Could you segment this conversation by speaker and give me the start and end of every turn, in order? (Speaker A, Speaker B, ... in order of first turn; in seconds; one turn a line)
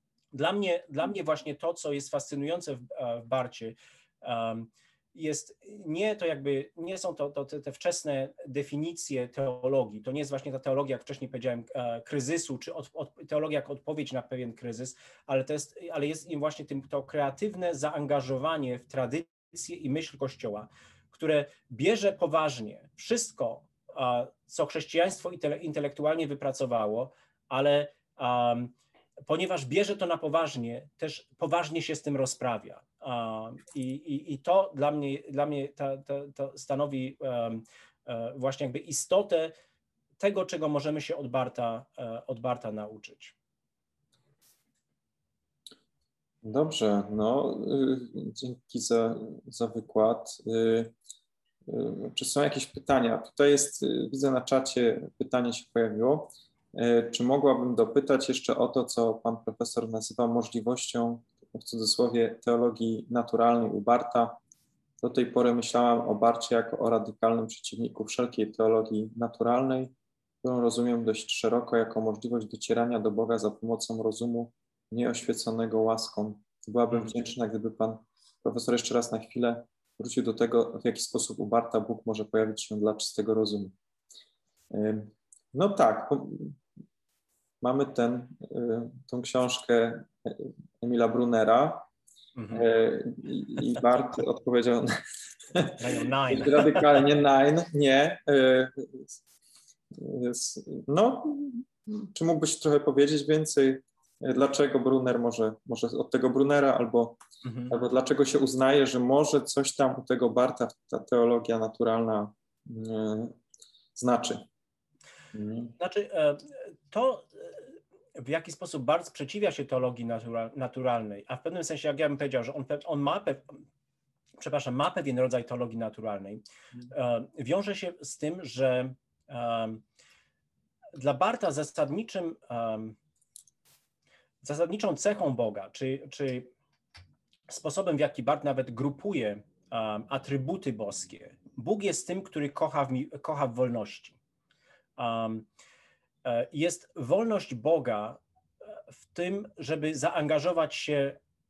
Speaker A: 0.3-28.7
Speaker A: 29.2-39.5
Speaker A: 40.2-43.3
Speaker B: 46.4-50.9
Speaker B: 51.7-64.4
Speaker B: 65.0-83.8
Speaker A: 76.9-77.2
Speaker B: 84.7-86.6
Speaker B: 87.6-91.9
Speaker A: 92.3-92.6
Speaker B: 92.5-94.9
Speaker A: 95.8-97.0
Speaker B: 96.3-99.1
Speaker B: 99.9-113.4
Speaker A: 107.4-107.7
Speaker B: 113.9-114.5
Speaker B: 115.3-115.7
Speaker A: 115.8-117.6
Speaker A: 118.2-123.6
Speaker A: 124.4-129.8
Speaker A: 130.9-133.0
Speaker A: 134.4-136.5
Speaker A: 137.5-144.2
Speaker A: 145.0-145.5
Speaker A: 146.2-148.2
Speaker A: 148.9-151.2